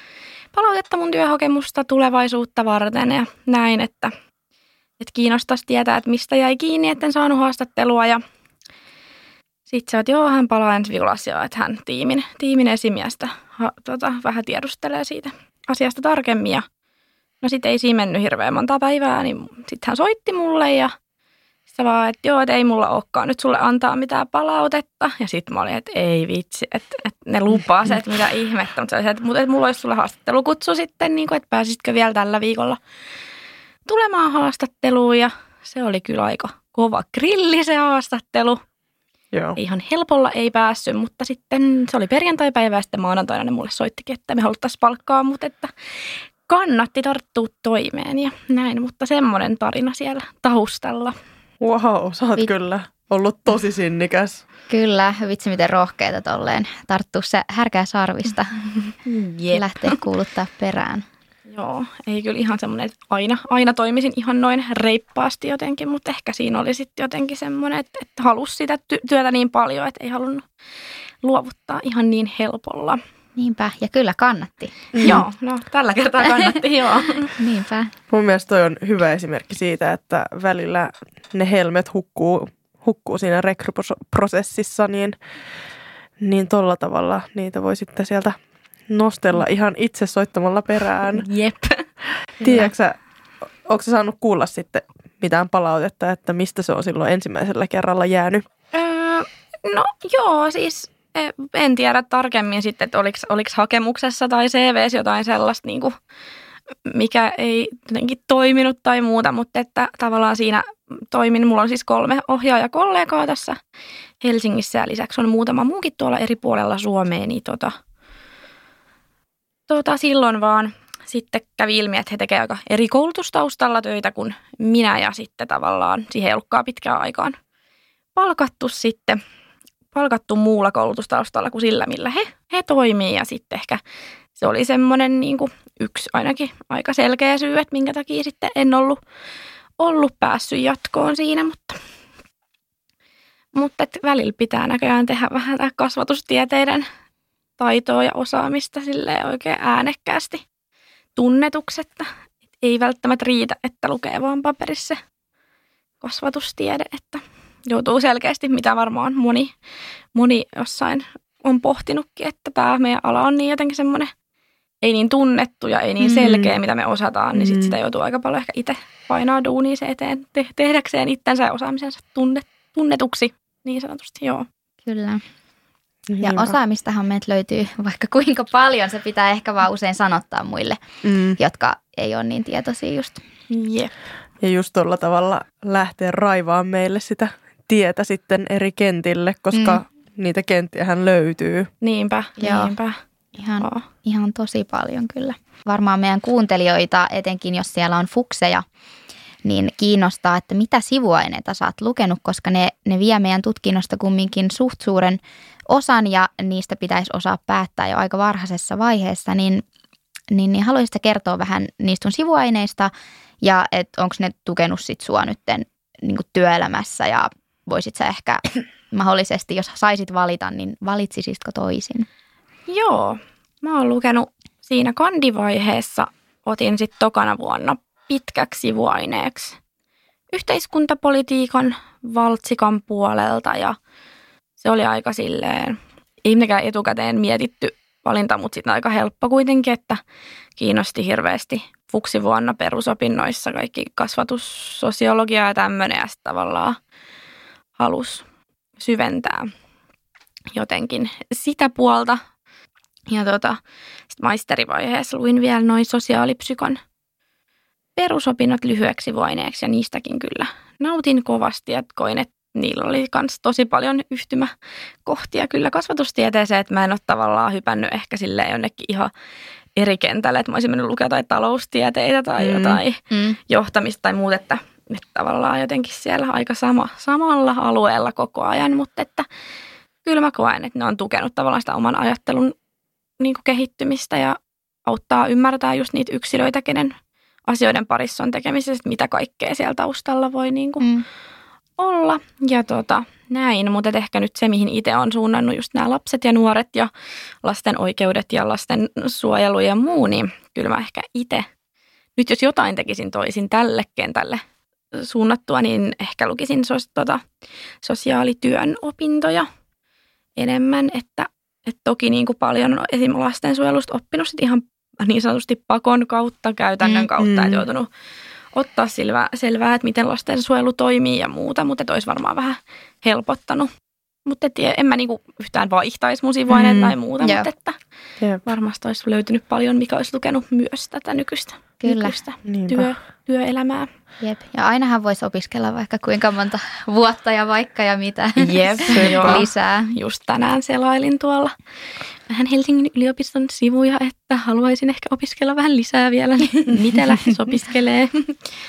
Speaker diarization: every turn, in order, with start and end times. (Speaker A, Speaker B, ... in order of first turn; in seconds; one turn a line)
Speaker A: 0.5-4.1
Speaker A: 5.0-8.2
Speaker A: 9.7-16.6
Speaker A: 17.4-20.9
Speaker A: 21.7-32.8
Speaker A: 33.9-38.6
Speaker B: 39.3-39.6
Speaker A: 39.6-45.7
Speaker A: 46.5-51.2
Speaker B: 51.6-54.4
Speaker C: 54.7-58.6
Speaker A: 59.0-60.0
Speaker C: 59.5-61.0
Speaker A: 61.5-70.4
Speaker A: 71.2-73.0
Speaker C: 73.3-74.9
Speaker B: 74.9-75.2
Speaker A: 75.0-77.3
Speaker C: 77.4-77.9
Speaker B: 78.1-85.2
Speaker B: 86.2-88.4
Speaker B: 88.9-91.2
Speaker A: 91.1-91.8
Speaker B: 92.4-93.0
Speaker B: 93.6-98.4
Speaker A: 98.7-105.9
Speaker A: 106.8-113.6
Speaker A: 114.2-117.7
Speaker A: 119.7-127.4
Speaker A: 128.2-129.2
Speaker A: 129.9-133.8
Speaker A: 134.3-139.0
Speaker A: 139.8-141.8
Speaker A: 143.5-146.9
Speaker A: 147.6-150.4
Speaker A: 151.2-152.1
Speaker A: 152.6-155.0
Speaker A: 156.0-159.5
Speaker A: 160.1-164.1
Speaker A: 164.8-174.5
Speaker B: 166.0-166.5
Speaker B: 167.3-167.8
Speaker C: 174.8-175.2
Speaker B: 176.1-176.6
Speaker C: 176.2-180.8
Speaker B: 181.0-181.4
Speaker C: 181.4-183.2
Speaker A: 183.5-183.9
Speaker B: 184.4-191.7
Speaker C: 189.5-189.8
Speaker A: 191.8-193.0
Speaker C: 192.4-192.7
Speaker C: 193.3-198.6
Speaker A: 193.6-193.8
Speaker C: 199.4-209.6
Speaker C: 210.3-222.1
Speaker A: 222.7-229.6
Speaker A: 230.3-233.8
Speaker A: 234.6-240.0
Speaker A: 240.6-246.8
Speaker A: 247.8-248.2
Speaker A: 248.8-249.5
Speaker A: 250.5-252.2
Speaker A: 253.1-253.6
Speaker A: 254.1-256.8
Speaker A: 257.9-264.5
Speaker A: 265.0-269.1
Speaker A: 269.8-279.2
Speaker B: 272.4-272.8
Speaker C: 273.1-273.4
Speaker A: 280.0-282.5
Speaker A: 283.2-286.9
Speaker A: 287.5-290.9
Speaker A: 291.8-296.9
Speaker A: 297.4-301.5
Speaker A: 302.1-304.4
Speaker A: 304.9-307.2
Speaker A: 307.8-309.5
Speaker A: 310.4-317.9
Speaker C: 316.8-317.1
Speaker B: 317.2-317.6
Speaker A: 318.5-323.7
Speaker A: 324.2-327.8
Speaker B: 326.5-326.9
Speaker C: 327.2-327.5
Speaker A: 328.4-333.9
Speaker C: 331.8-332.1
Speaker B: 332.4-332.9
Speaker C: 334.2-339.9
Speaker A: 338.4-341.5
Speaker B: 338.9-339.5
Speaker A: 342.3-348.4